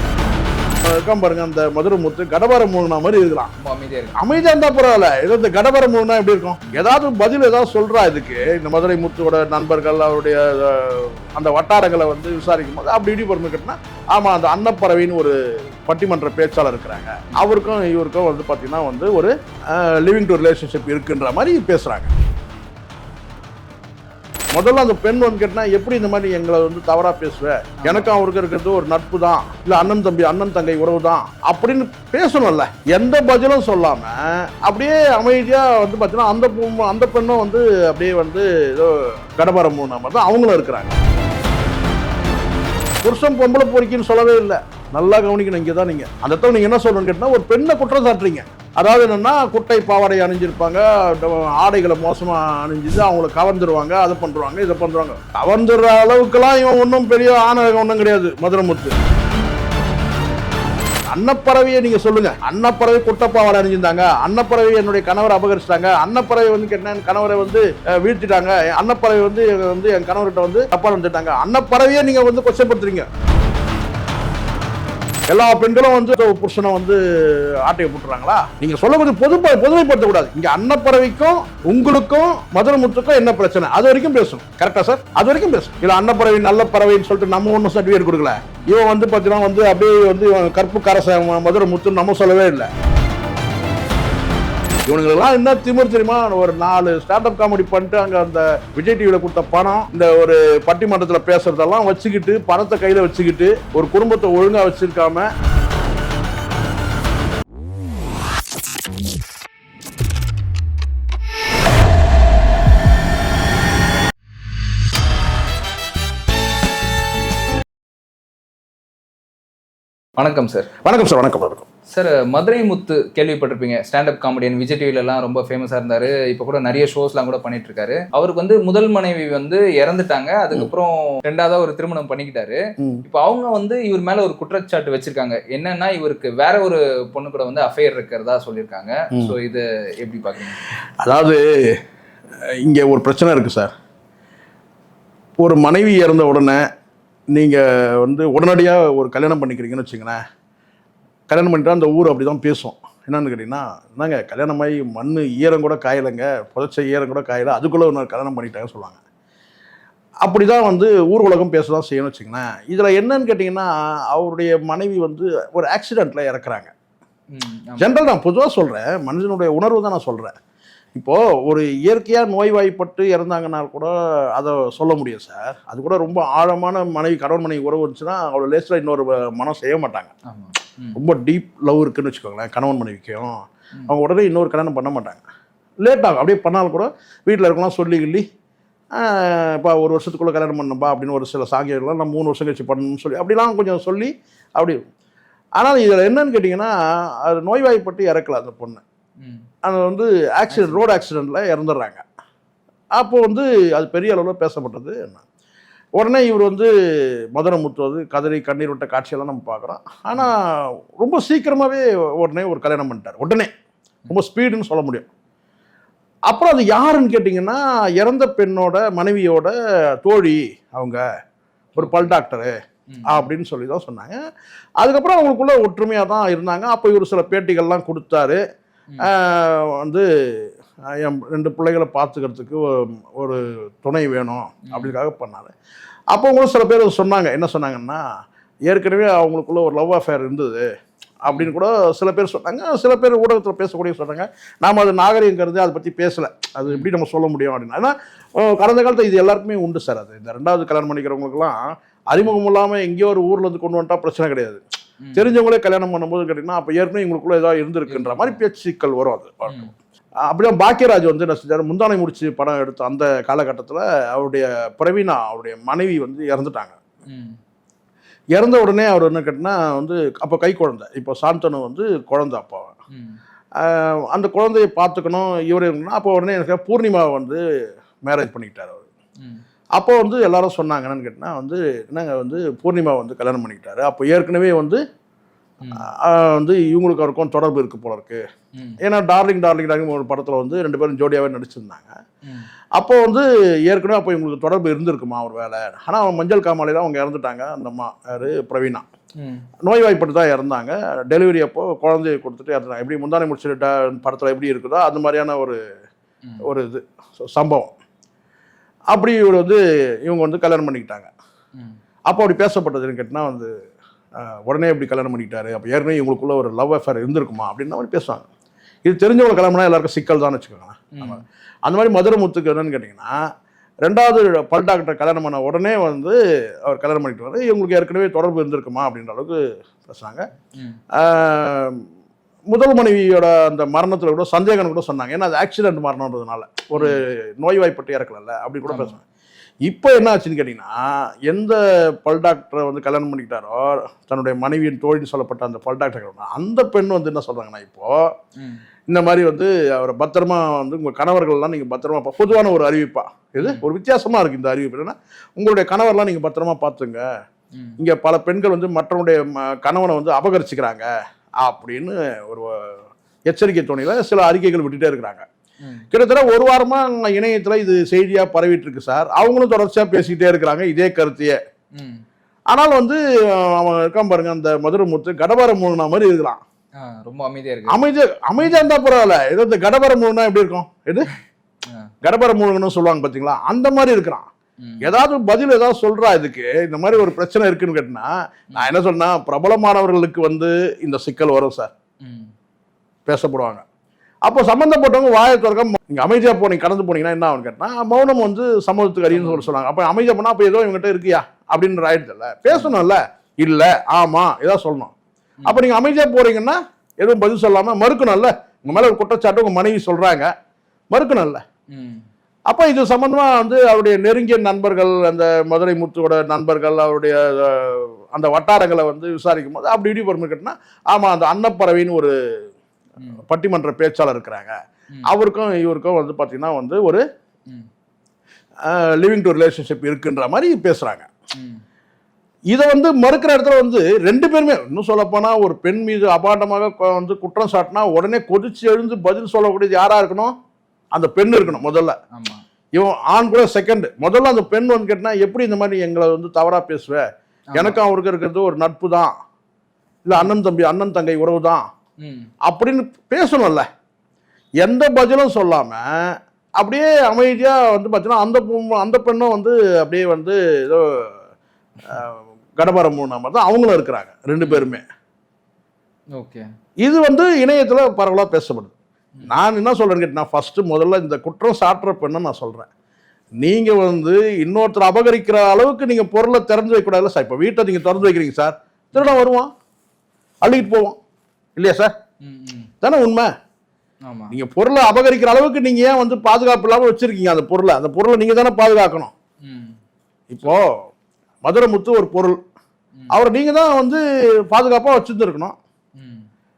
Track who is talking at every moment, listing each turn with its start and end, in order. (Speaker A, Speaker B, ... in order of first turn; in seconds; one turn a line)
Speaker A: 0.8-3.5
Speaker B: 3.6-4.5
Speaker A: 4.2-22.1
Speaker A: 24.5-41.0
Speaker B: 27.8-28.1
Speaker A: 43.0-59.0
Speaker A: 61.1-73.1
Speaker A: 75.3-92.7
Speaker A: 94.8-105.3
Speaker B: 120.2-120.7
Speaker A: 120.8-121.7
Speaker B: 121.9-140.6
Speaker A: 141.0-141.4
Speaker A: 142.5-143.7
Speaker A: 145.4-146.6
Speaker A: 147.3-150.2
Speaker A: 151.3-159.0
Speaker A: 160.2-166.7
Speaker B: 167.3-167.9
Speaker A: 167.8-170.4
Speaker A: 170.9-180.1
Speaker B: 180.3-181.0
Speaker A: 180.9-185.2
Speaker A: 185.8-188.2
Speaker A: 188.9-194.8
Speaker A: 195.6-198.8
Speaker A: 199.6-202.0
Speaker B: 200.5-200.9
Speaker A: 203.0-205.2
Speaker A: 206.0-206.7
Speaker A: 207.3-213.5
Speaker A: 214.1-215.1
Speaker A: 216.3-221.0
Speaker A: 221.8-222.5
Speaker B: 221.8-222.2
Speaker B: 222.9-223.3
Speaker A: 223.1-224.2
Speaker A: 224.8-228.4
Speaker A: 229.0-235.5
Speaker A: 236.1-238.0
Speaker A: 238.7-240.7
Speaker A: 241.2-251.6
Speaker B: 241.3-241.5
Speaker A: 252.1-254.6
Speaker B: 255.0-255.3
Speaker A: 255.2-259.7
Speaker B: 257.9-258.4
Speaker A: 260.3-266.8
Speaker B: 267.1-267.4
Speaker A: 268.4-272.7
Speaker B: 272.9-273.2
Speaker A: 273.6-277.4
Speaker A: 278.0-278.8
Speaker A: 279.8-284.8
Speaker B: 285.6-285.9
Speaker A: 285.8-288.2
Speaker A: 288.8-291.9
Speaker A: 292.8-298.9
Speaker B: 299.2-299.4
Speaker A: 299.6-305.6
Speaker A: 306.4-307.7
Speaker A: 308.9-311.1
Speaker A: 312.1-313.5
Speaker A: 314.2-318.2
Speaker A: 318.8-323.1
Speaker B: 320.9-321.2
Speaker A: 323.8-330.2
Speaker A: 330.9-331.8
Speaker A: 332.5-339.0
Speaker B: 338.7-338.9
Speaker A: 339.6-340.8
Speaker A: 341.3-348.0
Speaker B: 348.4-348.6
Speaker A: 348.9-357.0
Speaker A: 357.8-360.9
Speaker A: 361.4-362.7
Speaker A: 363.3-365.2
Speaker A: 365.9-371.4
Speaker B: 371.8-372.0
Speaker A: 372.5-376.4
Speaker B: 376.8-377.8
Speaker A: 377.7-381.1
Speaker A: 382.0-384.3
Speaker B: 384.6-384.9
Speaker A: 384.8-391.7
Speaker B: 392.0-392.3
Speaker A: 393.1-393.6
Speaker A: 394.2-404.9
Speaker B: 399.1-399.5
Speaker B: 402.5-402.8
Speaker A: 405.5-410.3
Speaker A: 410.9-411.4
Speaker B: 411.7-412.0
Speaker A: 412.5-422.1
Speaker A: 423.3-424.6
Speaker A: 425.1-427.0
Speaker A: 428.6-431.1
Speaker B: 431.4-431.6
Speaker A: 432.5-440.3
Speaker A: 440.9-441.9
Speaker B: 442.1-442.4
Speaker A: 442.8-447.0
Speaker A: 447.5-449.1
Speaker A: 450.0-451.6
Speaker B: 452.0-452.3
Speaker A: 452.4-453.6
Speaker A: 454.6-455.8
Speaker A: 456.6-460.8
Speaker A: 461.8-464.8
Speaker B: 464.4-464.7
Speaker B: 466.2-466.4
Speaker A: 466.8-468.7
Speaker A: 469.2-472.7
Speaker A: 473.4-479.5
Speaker B: 478.9-479.2
Speaker A: 480.4-481.0
Speaker A: 481.6-481.9
Speaker B: 482.2-482.7
Speaker A: 482.8-483.3
Speaker B: 484.1-484.3
Speaker A: 484.3-489.1
Speaker B: 489.4-489.8
Speaker A: 490.3-490.9
Speaker A: 491.4-492.4
Speaker A: 493.1-495.6
Speaker B: 496.0-496.3